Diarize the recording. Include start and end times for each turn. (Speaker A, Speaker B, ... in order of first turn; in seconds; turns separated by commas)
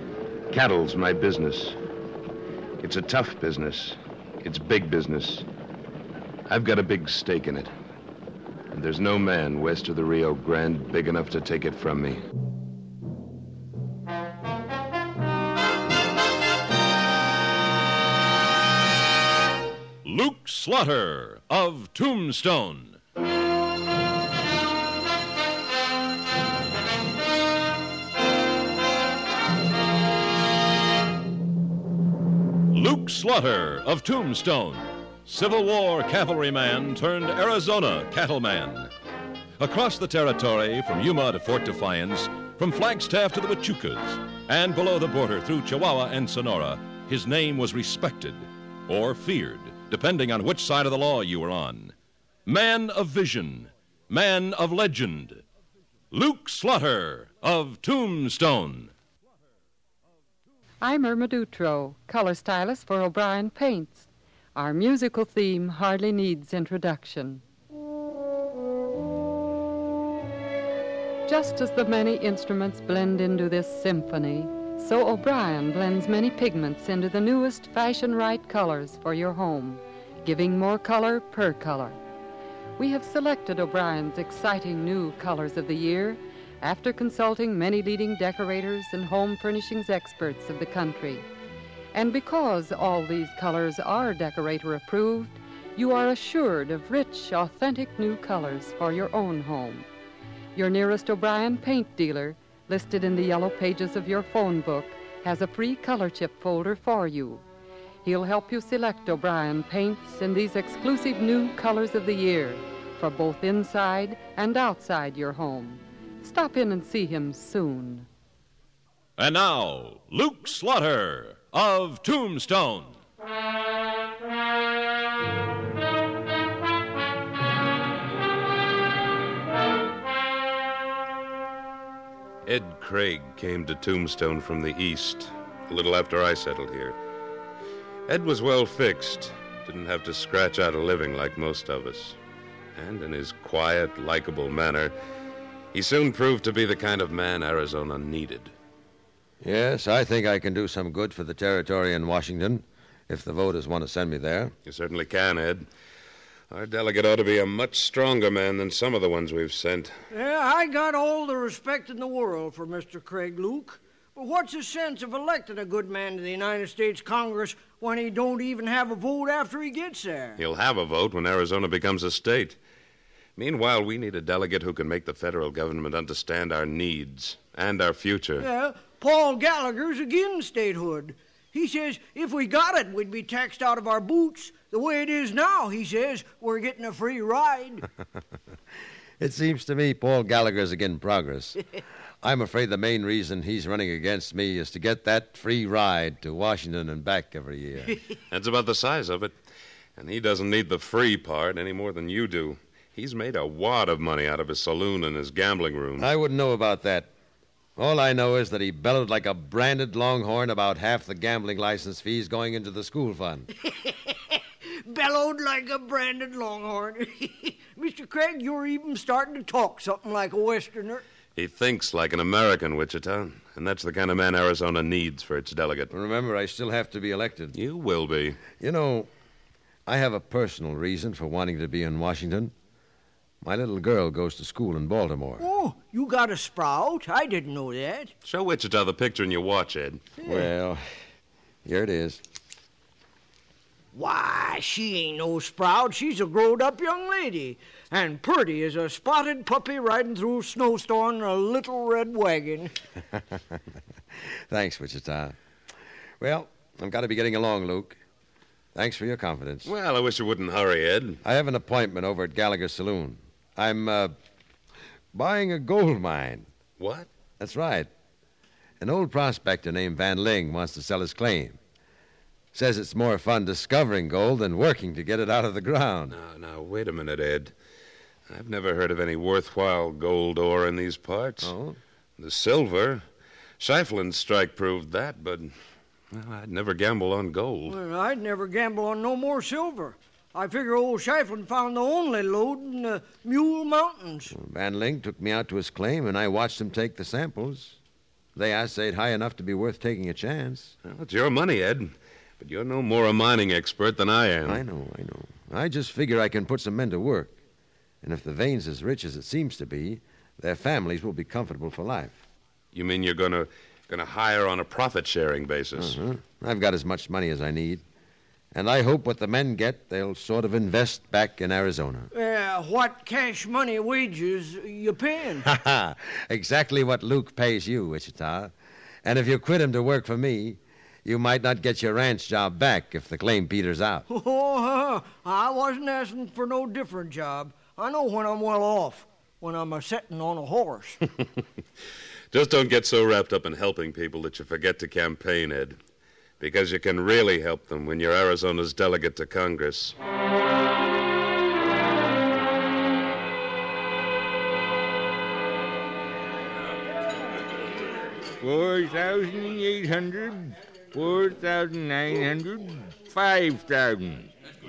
Speaker A: 0.5-1.8, Speaker A: 2.8-5.5, Speaker A: 6.5-7.7, Speaker A: 8.7-12.2, Speaker B: 20.0-23.0, Speaker B: 32.7-38.9, Speaker B: 39.6-51.9, Speaker B: 52.5-55.4, Speaker B: 56.1-58.9, Speaker C: 60.8-67.4, Speaker C: 71.2-82.0, Speaker C: 82.8-91.3, Speaker C: 91.9-99.9, Speaker C: 100.5-107.4, Speaker C: 108.0-118.1, Speaker B: 119.2-123.0, Speaker A: 132.4-137.0, Speaker A: 138.1-142.2, Speaker A: 142.8-144.9, Speaker A: 145.7-148.5, Speaker D: 149.4-154.5, Speaker A: 154.7-155.7, Speaker A: 156.5-159.9, Speaker E: 160.1-170.4, Speaker A: 170.4-172.6, Speaker A: 173.4-178.5, Speaker E: 178.4-187.8, Speaker D: 189.2-191.6, Speaker D: 192.2-198.0, Speaker A: 198.3-199.3, Speaker A: 200.0-206.1, Speaker D: 206.0-207.1, Speaker D: 207.8-213.5, Speaker E: 213.6-221.0, Speaker A: 221.3-225.9, Speaker D: 225.9-227.6, Speaker A: 227.5-228.4, Speaker D: 228.6-229.1, Speaker D: 229.9-232.5, Speaker D: 233.4-235.5, Speaker E: 235.4-238.1, Speaker A: 238.2-240.0, Speaker D: 240.2-240.8, Speaker D: 241.6-242.2, Speaker E: 243.9-252.7, Speaker D: 253.3-253.6, Speaker D: 254.5-255.3, Speaker D: 256.2-258.0, Speaker D: 258.7-259.7, Speaker A: 259.6-261.2, Speaker D: 261.2-264.1, Speaker D: 265.1-266.5, Speaker A: 266.8-267.1, Speaker D: 267.4-267.9, Speaker D: 268.8-271.6, Speaker D: 272.5-276.1, Speaker A: 276.1-277.5, Speaker A: 278.3-281.5, Speaker D: 281.4-281.8, Speaker A: 282.2-283.0, Speaker A: 283.6-285.5, Speaker A: 286.1-287.8, Speaker E: 287.7-294.3, Speaker D: 294.3-297.8, Speaker D: 298.3-300.7, Speaker A: 300.8-304.6, Speaker D: 304.4-307.4, Speaker D: 308.0-312.2, Speaker A: 312.7-316.0, Speaker D: 315.8-317.8, Speaker D: 318.5-322.1, Speaker E: 322.1-325.5, Speaker D: 325.4-328.5, Speaker D: 329.0-334.0, Speaker E: 334.1-341.0, Speaker A: 342.3-345.8, Speaker A: 346.4-349.9, Speaker F: 358.4-364.3